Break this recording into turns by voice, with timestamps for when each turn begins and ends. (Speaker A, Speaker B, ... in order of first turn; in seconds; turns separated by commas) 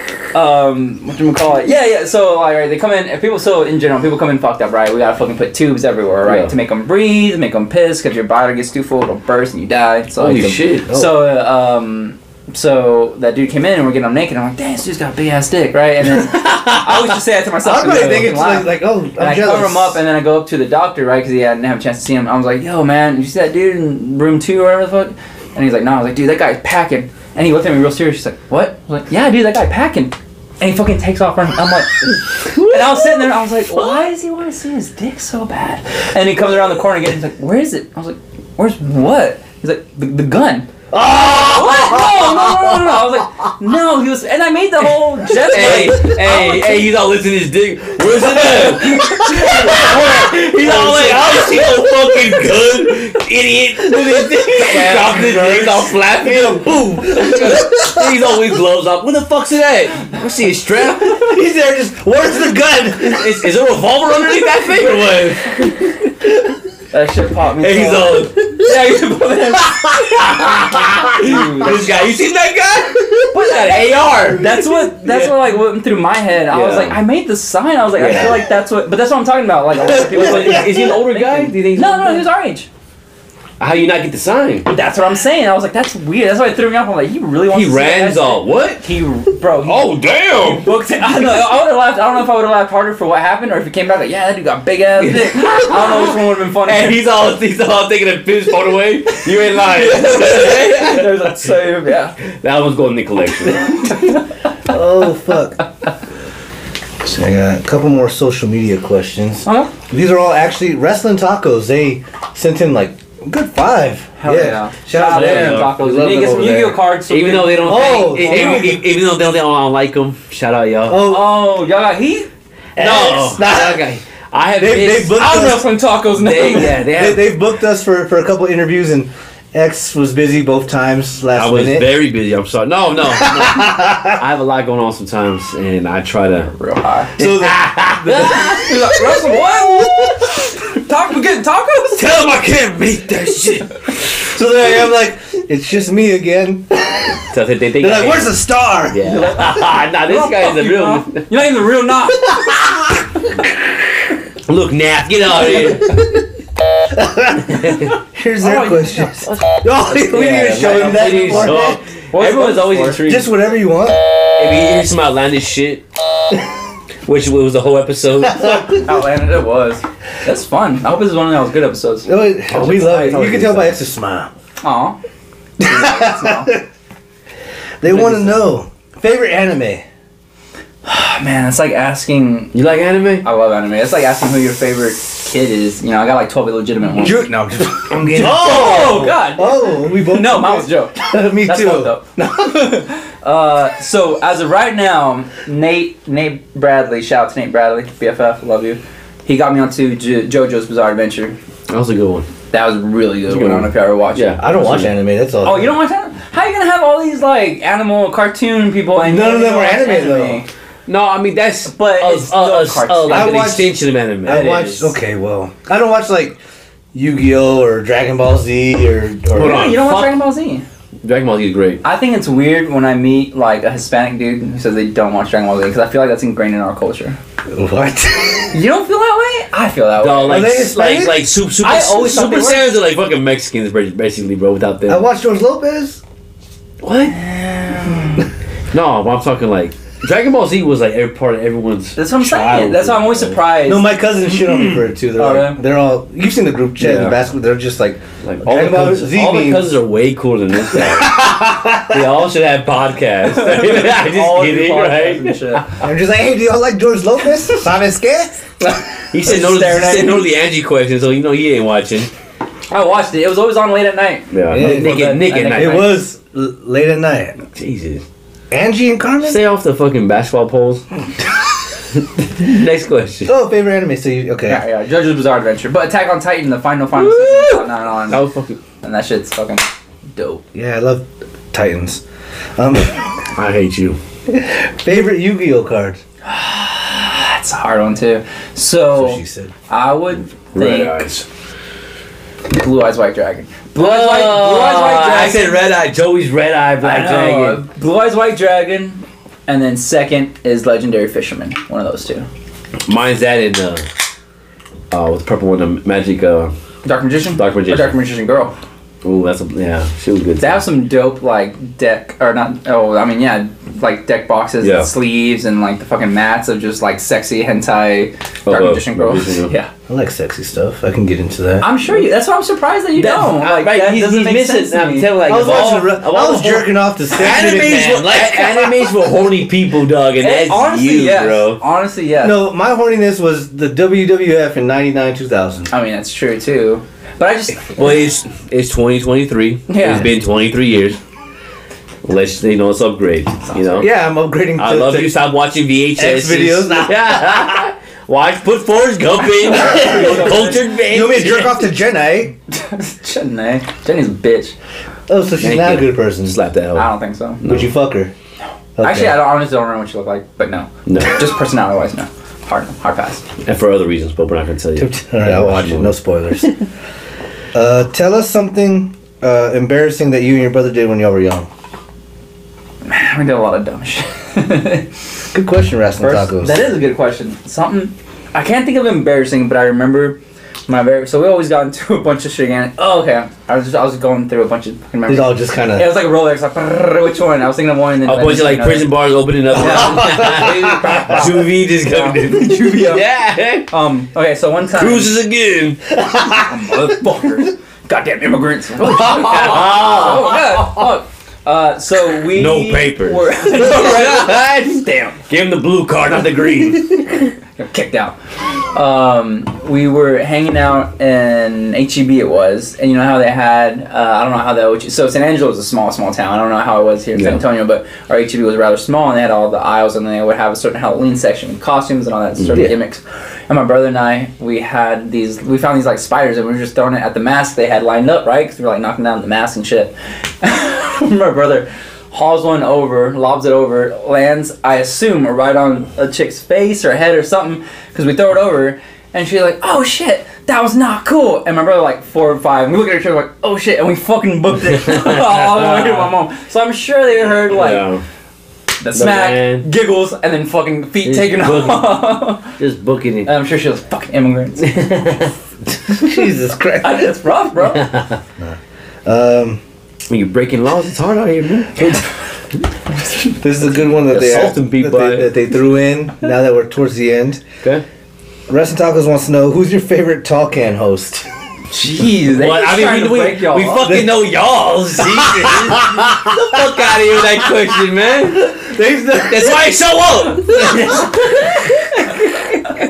Speaker A: 0.3-40.7, Speaker B: 6.2-6.5, Speaker B: 10.2-10.9, Speaker C: 10.9-11.3, Speaker B: 16.3-17.1, Speaker C: 17.6-20.0, Speaker B: 32.5-33.3, Speaker C: 40.9-41.6, Speaker B: 40.9-43.2, Speaker A: 41.4-46.9, Speaker B: 45.4-61.4, Speaker A: 48.3-51.5, Speaker C: 50.6-51.5, Speaker C: 54.4-58.1, Speaker C: 61.1-63.4, Speaker B: 63.0-66.3, Speaker A: 66.9-70.3, Speaker B: 67.6-68.7, Speaker B: 69.5-75.4, Speaker A: 71.1-71.9, Speaker A: 73.3-82.7, Speaker B: 76.5-77.0, Speaker B: 78.0-78.5, Speaker B: 79.8-82.3, Speaker C: 80.2-80.7, Speaker B: 83.6-84.7, Speaker A: 84.7-97.1, Speaker B: 87.5-88.8, Speaker B: 89.5-90.7, Speaker B: 95.0-101.2, Speaker A: 99.5-102.2, Speaker B: 102.4-104.0, Speaker A: 103.6-104.2, Speaker C: 104.7-105.6, Speaker C: 107.0-116.8, Speaker A: 109.5-109.7, Speaker A: 114.2-118.8, Speaker B: 114.9-115.8, Speaker B: 117.1-121.1, Speaker C: 117.6-118.8, Speaker C: 120.9-121.4, Speaker A: 121.0-122.3, Speaker C: 122.8-123.9, Speaker B: 122.8-125.3, Speaker A: 122.8-123.3, Speaker C: 124.6-125.7, Speaker A: 125.1-126.9, Speaker B: 126.1-127.3, Speaker C: 126.8-131.9, Speaker B: 131.3-136.5, Speaker C: 133.1-134.2, Speaker A: 136.5-137.1, Speaker C: 137.2-138.6, Speaker B: 137.2-140.4, Speaker A: 138.2-142.0, Speaker B: 141.9-144.1, Speaker C: 144.3-147.2, Speaker B: 147.3-151.3, Speaker C: 147.8-149.3, Speaker A: 149.0-153.0, Speaker B: 154.5-156.0, Speaker C: 155.6-156.0, Speaker C: 156.9-161.8, Speaker B: 157.5-157.9, Speaker A: 158.4-159.1, Speaker B: 159.2-163.3, Speaker A: 160.1-163.3, Speaker C: 163.0-164.0, Speaker B: 164.4-165.8, Speaker B: 167.1-168.7, Speaker C: 168.3-168.8, Speaker A: 168.7-172.1, Speaker C: 172.1-174.3, Speaker B: 172.5-173.8, Speaker A: 174.6-175.0, Speaker A: 175.6-176.6, Speaker C: 175.6-176.6, Speaker C: 177.8-179.8, Speaker A: 180.8-182.6, Speaker B: 182.5-183.2, Speaker A: 183.2-187.3, Speaker C: 187.0-192.5, Speaker B: 188.1-189.2, Speaker A: 188.1-201.4, Speaker B: 201.7-202.3, Speaker A: 202.5-204.4, Speaker B: 203.3-204.9, Speaker C: 204.4-205.8, Speaker A: 205.4-210.5, Speaker C: 209.0-210.5, Speaker B: 210.9-214.9, Speaker A: 211.7-213.5, Speaker C: 213.1-216.4, Speaker C: 216.9-219.8, Speaker B: 219.3-220.2, Speaker A: 219.4-220.6, Speaker B: 221.0-221.8, Speaker A: 221.8-227.2, Speaker C: 227.5-228.6, Speaker A: 228.5-230.7, Speaker B: 230.0-235.0, Speaker C: 230.2-231.3, Speaker A: 231.6-232.7, Speaker C: 234.9-236.0, Speaker B: 236.8-237.2, Speaker A: 237.1-238.3, Speaker B: 238.7-243.4, Speaker A: 242.0-243.9, Speaker C: 243.6-249.8, Speaker A: 245.2-245.6, Speaker B: 246.8-247.2, Speaker B: 248.2-251.3, Speaker C: 250.7-252.1, Speaker B: 251.9-255.7, Speaker A: 253.2-255.7, Speaker C: 255.8-258.4, Speaker A: 258.7-260.3, Speaker B: 259.1-262.1, Speaker A: 262.7-266.0, Speaker B: 264.3-265.9, Speaker C: 264.5-267.4, Speaker B: 267.5-268.0, Speaker C: 268.5-269.4, Speaker B: 269.2-270.9, Speaker B: 272.3-273.3, Speaker C: 273.3-274.6, Speaker A: 274.5-278.2, Speaker B: 277.0-278.6, Speaker A: 278.8-279.6, Speaker A: 280.2-280.4, Speaker C: 280.5-282.0, Speaker C: 282.6-283.2, Speaker B: 283.3-284.0, Speaker C: 284.3-286.0, Speaker A: 286.2-291.1, Speaker C: 288.9-289.5, Speaker B: 290.5-291.3, Speaker A: 292.5-295.6, Speaker B: 293.8-297.6, Speaker A: 296.8-302.3, Speaker B: 302.9-303.8, Speaker B: 304.9-306.5, Speaker A: 306.9-308.5, Speaker B: 307.4-308.0, Speaker B: 309.0-310.6, Speaker A: 310.4-319.7, Speaker B: 314.6-314.9, Speaker B: 318.5-319.5, Speaker C: 319.9-321.7, Speaker A: 321.6-325.1, Speaker B: 323.0-331.6, Speaker C: 325.3-328.9, Speaker A: 330.2-332.4, Speaker C: 332.2-335.7, Speaker A: 335.7-338.0, Speaker B: 337.7-341.0, Speaker A: 339.7-340.1, Speaker B: 342.0-343.9, Speaker A: 343.5-343.8, Speaker C: 343.8-345.2, Speaker B: 344.6-351.6, Speaker C: 346.0-347.6, Speaker A: 349.5-350.7, Speaker C: 350.8-352.4, Speaker A: 352.5-354.5, Speaker C: 355.1-356.4, Speaker B: 355.4-357.7, Speaker A: 356.8-357.4, Speaker C: 357.4-358.1, Speaker C: 358.8-359.3, Speaker A: 358.8-363.3, Speaker B: 360.9-361.3, Speaker B: 363.4-366.5, Speaker C: 364.8-366.5, Speaker C: 367.5-371.5, Speaker A: 372.9-374.9, Speaker C: 375.3-376.6, Speaker A: 376.0-388.9, Speaker C: 385.1-385.9, Speaker B: 388.1-393.7, Speaker C: 389.5-391.3, Speaker A: 389.6-393.1, Speaker A: 393.7-395.1, Speaker B: 394.7-395.8, Speaker C: 396.0-396.5, Speaker A: 396.3-405.1, Speaker B: 398.8-400.9, Speaker B: 402.2-407.3, Speaker A: 407.6-408.2, Speaker A: 408.7-447.9, Speaker B: 417.2-417.4, Speaker B: 422.4-422.7, Speaker B: 444.9-446.1, Speaker B: 447.5-448.0, Speaker A: 448.8-452.6, Speaker B: 448.9-449.7, Speaker B: 451.1-453.3, Speaker A: 453.2-454.9, Speaker B: 454.6-455.3, Speaker C: 455.9-457.1, Speaker A: 456.8-457.9, Speaker B: 457.7-458.2, Speaker C: 458.4-459.6, Speaker B: 460.1-462.1, Speaker C: 463.4-467.4, Speaker B: 464.1-465.4, Speaker C: 468.5-471.3, Speaker A: 471.7-473.9, Speaker B: 472.3-478.6, Speaker C: 473.8-474.2, Speaker C: 475.0-476.6, Speaker C: 478.4-479.7, Speaker B: 479.2-482.2